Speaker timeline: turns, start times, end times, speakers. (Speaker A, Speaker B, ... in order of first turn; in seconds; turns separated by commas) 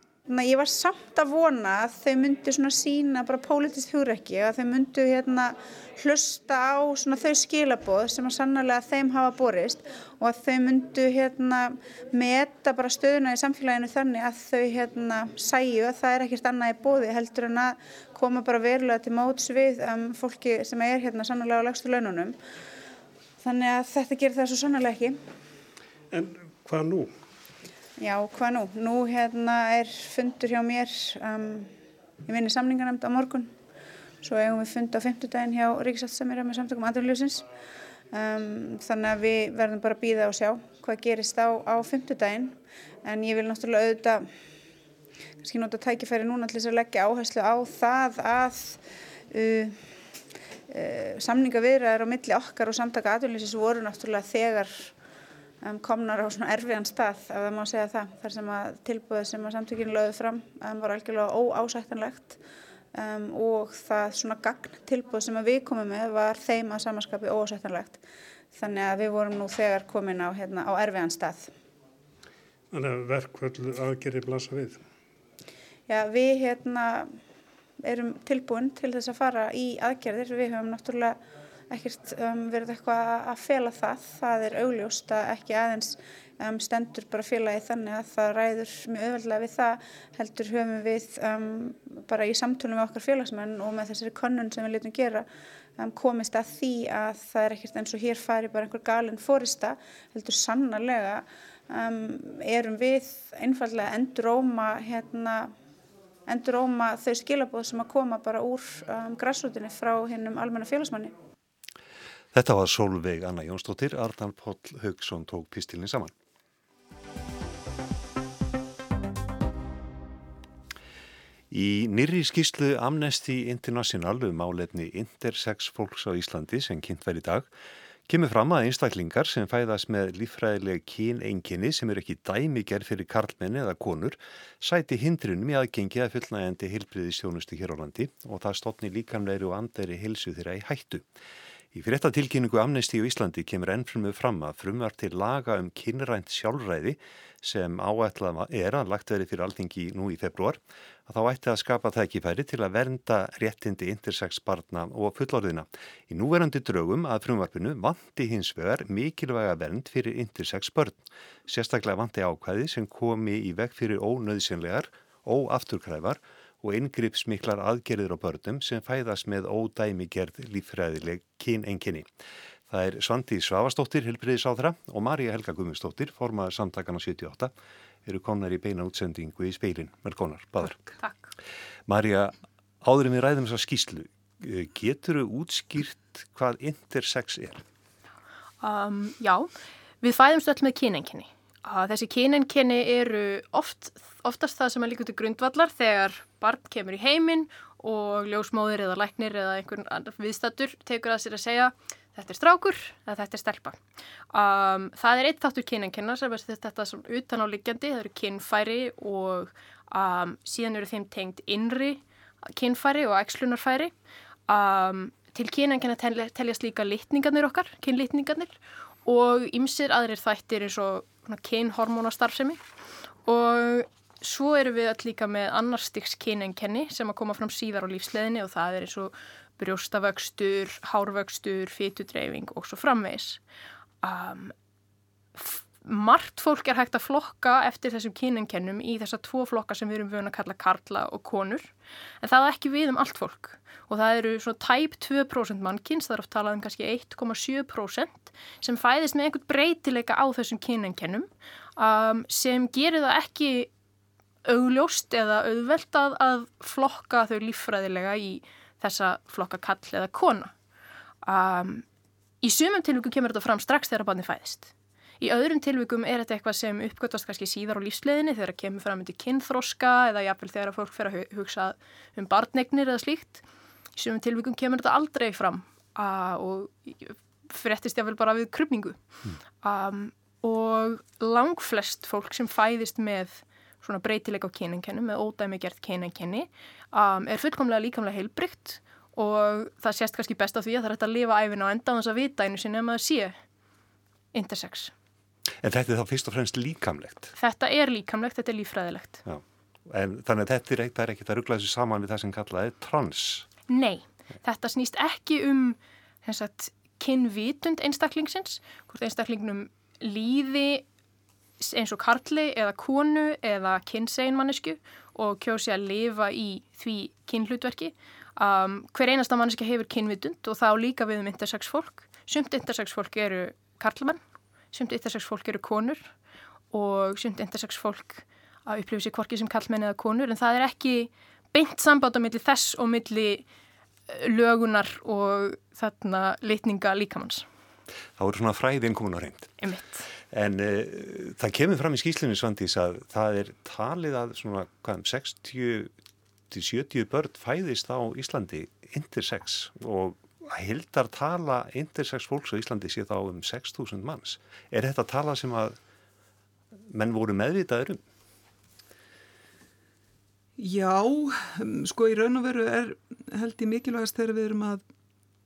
Speaker A: 0.3-22.4, Speaker A: 23.4-25.2, Speaker B: 26.1-27.1, Speaker A: 28.0-31.7, Speaker A: 32.3-33.5, Speaker A: 34.2-37.5, Speaker A: 38.1-44.3, Speaker A: 45.4-48.8, Speaker A: 49.3-49.8, Speaker A: 50.7-54.9, Speaker A: 55.6-62.4, Speaker A: 62.9-68.0, Speaker A: 68.5-71.5, Speaker B: 72.7-74.8, Speaker A: 75.9-77.1, Speaker A: 77.8-81.2, Speaker A: 81.7-95.2, Speaker A: 95.8-105.5, Speaker A: 106.3-111.1, Speaker C: 112.3-116.1, Speaker C: 121.5-127.5, Speaker C: 128.1-141.0, Speaker C: 141.7-172.1, Speaker C: 172.7-177.5, Speaker C: 178.1-180.8, Speaker D: 181.0-181.3, Speaker C: 181.9-187.6, Speaker D: 188.6-189.5, Speaker D: 190.0-203.8, Speaker D: 204.3-213.9, Speaker D: 214.5-222.6, Speaker D: 223.2-233.4, Speaker D: 234.0-234.5, Speaker D: 235.3-241.7, Speaker D: 242.2-253.7, Speaker D: 254.4-260.5, Speaker D: 261.2-261.8, Speaker D: 262.4-273.4, Speaker D: 273.9-279.0, Speaker D: 279.6-293.4, Speaker D: 294.3-294.9, Speaker C: 295.6-297.3, Speaker D: 297.4-299.2, Speaker C: 299.2-303.5, Speaker D: 303.7-310.9, Speaker D: 311.6-324.2, Speaker D: 324.7-326.1, Speaker D: 326.7-333.4, Speaker D: 334.1-337.4, Speaker C: 338.2-339.5, Speaker D: 339.6-340.0, Speaker C: 340.3-345.9, Speaker C: 346.5-355.8, Speaker C: 356.9-358.0, Speaker E: 360.6-364.8